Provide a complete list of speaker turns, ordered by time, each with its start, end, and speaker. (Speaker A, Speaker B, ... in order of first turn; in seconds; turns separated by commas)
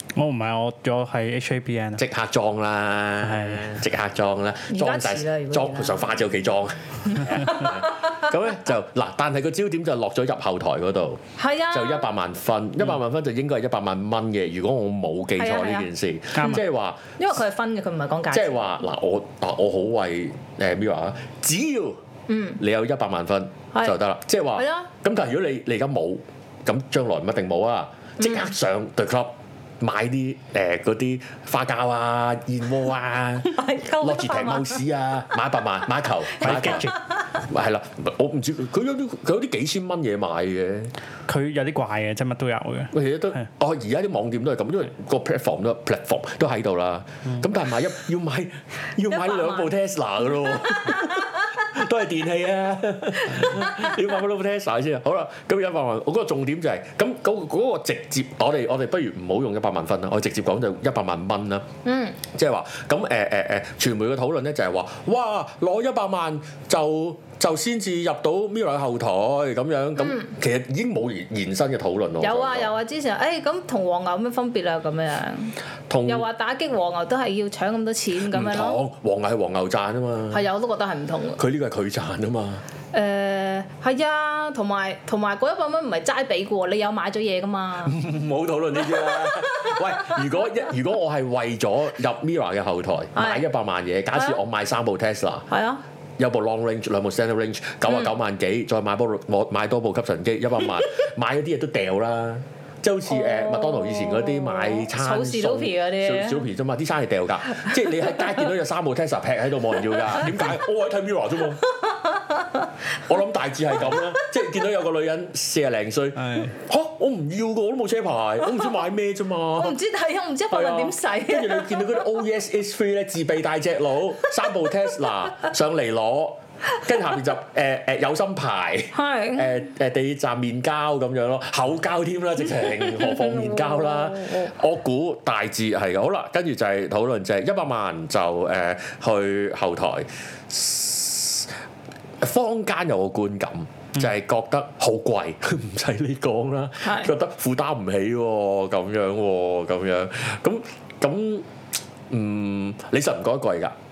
Speaker A: 0.1-2.0, Speaker B: 2.0-11.2, Speaker A: 3.2-3.7, Speaker C: 4.7-6.3, Speaker C: 7.0-8.2, Speaker C: 11.4-12.1, Speaker B: 11.7-17.0, Speaker C: 15.4-15.9, Speaker A: 16.3-16.6, Speaker C: 17.2-18.8, Speaker B: 18.3-22.0, Speaker C: 22.3-22.6, Speaker B: 22.6-40.9, Speaker C: 24.6-24.9, Speaker C: 28.2-28.5, Speaker C: 33.4-34.8, Speaker A: 36.4-37.0, Speaker C: 36.4-37.0, Speaker A: 41.3-42.9, Speaker B: 42.9-61.6, Speaker C: 49.0-49.7, Speaker C: 50.4-51.5, Speaker C: 53.3-54.0, Speaker C: 61.8-62.2, Speaker B: 62.3-72.7, Speaker C: 72.2-75.5, Speaker B: 75.9-76.2, Speaker C: 76.0-78.8, Speaker B: 78.2-80.4, Speaker C: 80.3-81.4, Speaker B: 81.4-82.6, Speaker C: 82.9-88.0, Speaker B: 87.8-95.5, Speaker C: 88.8-90.2, Speaker C: 93.2-93.5, Speaker C: 94.1-94.4, Speaker C: 95.5-95.8, Speaker B: 96.2-111.6, Speaker C: 97.8-98.1, Speaker C: 103.1-106.5, Speaker C: 107.5-108.4, Speaker C: 109.9-110.5, Speaker C: 111.6-112.7, Speaker B: 113.0-119.8, Speaker C: 113.8-114.5, Speaker A: 116.2-116.5, Speaker C: 118.4-118.8, Speaker C: 119.6-122.1, Speaker B: 120.5-141.5, Speaker C: 128.9-129.6, Speaker C: 132.6-134.5, Speaker B: 142.2-151.5, Speaker C: 146.8-147.1, Speaker B: 152.1-153.7